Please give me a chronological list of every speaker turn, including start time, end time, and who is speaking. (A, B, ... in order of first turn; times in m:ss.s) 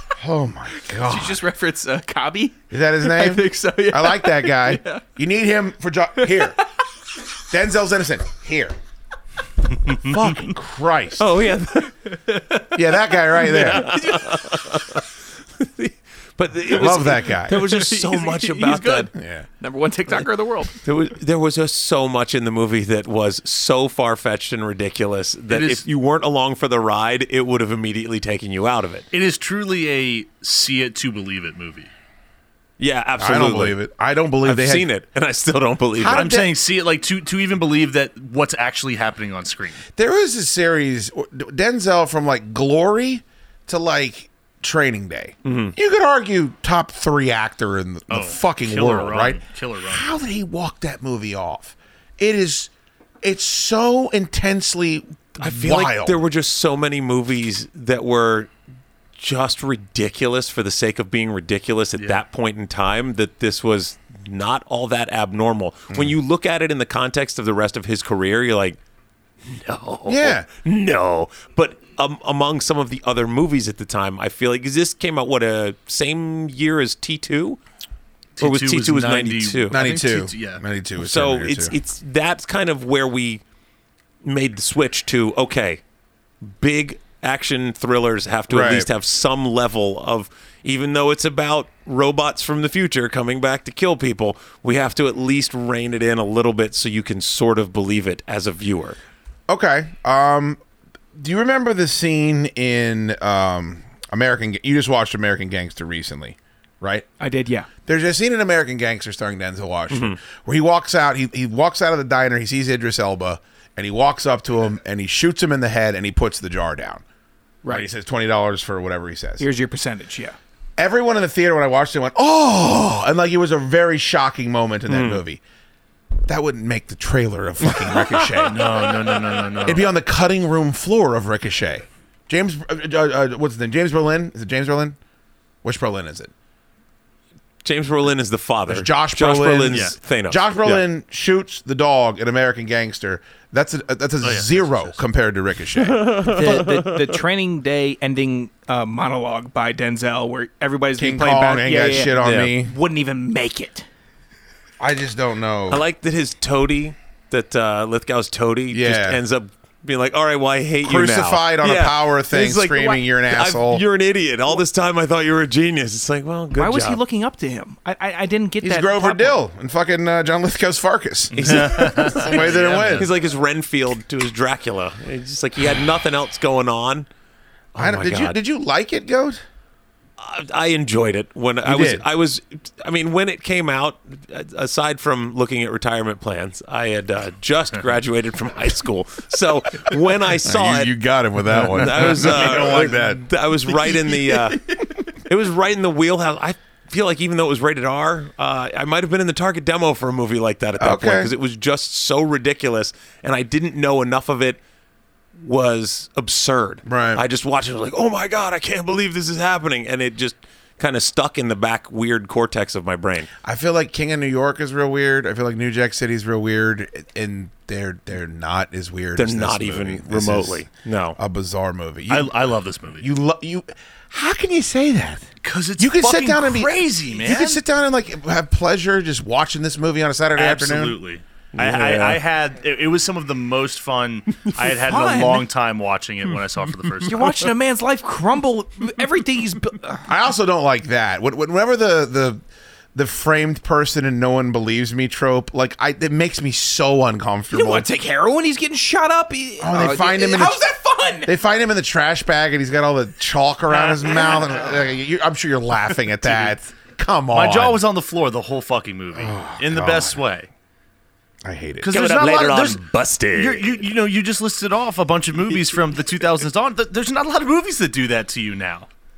0:00.2-0:01.4 A
0:00.9-0:05.0 B
0:02.7-0:06.6 A
0:06.2-0:06.6 B
0:07.5-0:08.7 A
0:09.9-0:11.3 A
0:11.2-0:11.9 C
0:12.0-0:12.8 B
0:12.7-0:14.1 A
0:13.4-0:19.1 C
0:13.6-0:14.8 B
0:16.7-0:17.6 A
0:17.5-0:20.8 B
0:19.1-0:19.5 A
0:20.8-0:29.1 C
0:25.5-0:25.9 D
0:29.1-0:31.9 D
0:32.8-0:33.8 C
0:33.2-0:34.9 A
0:34.4-0:36.3 C
0:35.9-0:36.5 A
0:36.1-0:39.8 D
0:40.0-0:52.7 A
0:45.4-0:45.7 C
0:48.1-0:50.1 D
0:53.2-0:56.2 A
0:55.4-0:58.5 C
0:59.2-1:08.8 C
1:02.0-1:02.2 D
1:09.4-1:17.6 C
1:10.0-1:10.5 A
1:18.4-1:20.6 D
1:18.4-1:19.8 C
1:19.7-1:21.8 A
1:21.0-1:23.4 C
1:24.2-1:25.8 C
1:26.4-1:39.0 C
1:28.5-1:28.9 A
1:39.5-1:40.6 A
1:41.1-1:47.1 A
1:47.2-1:47.7 B
1:47.9-1:57.0 A
1:49.9-1:50.2 C
1:57.6-1:59.5 A
1:59.4-2:00.4 B
2:00.8-2:05.4 A
2:04.9-2:05.2 C
2:06.3-2:09.0 A
2:08.0-2:08.3 C
2:08.4-2:09.9 D
2:09.6-2:15.0 A
2:15.6-2:16.3 A
2:17.6-2:20.8 C
2:18.7-2:26.4 A
2:19.7-2:20.0 D
2:24.2-2:25.0 D
2:25.8-2:27.2 C
2:26.2-2:33.8 B
2:31.0-2:32.7 A
2:32.2-2:32.5 C
2:34.8-2:35.8 A
2:35.7-2:47.0 C
2:38.7-2:39.2 A
2:40.8-2:43.8 A
2:46.5-2:49.4 B
2:48.6-2:53.1 A
2:51.3-2:57.1 C
2:51.4-2:53.1 D
2:57.7-2:58.4 C
2:57.8-2:59.4 A
3:00.2-3:10.9 C
3:01.6-3:02.0 A
3:10.4-3:13.3 A
3:11.6-3:24.6 C
3:11.7-3:12.9 D
3:14.4-3:14.7 B
3:20.8-3:21.3 A
3:25.4-3:33.3 C
3:26.8-3:27.2 A
3:33.4-3:42.3 A
3:39.2-3:41.2 C
3:42.1-3:43.1 D
3:43.0-3:45.3 A
3:45.4-3:47.6 D
3:45.8-3:51.0 A
3:50.4-3:57.4 D
3:51.5-3:52.2 C
3:54.8-3:55.5 B
3:57.1-4:00.0 B
4:00.1-4:02.4 A
4:02.9-4:07.9 A
4:07.5-4:11.3 B
4:09.6-4:10.6 A
4:11.2-4:17.8 A
4:13.7-4:14.6 D
4:16.2-4:16.5 D
4:17.3-4:20.5 D
4:19.1-4:20.2 A
4:21.4-4:21.9 A
4:21.8-4:28.9 D
4:21.9-4:23.7 C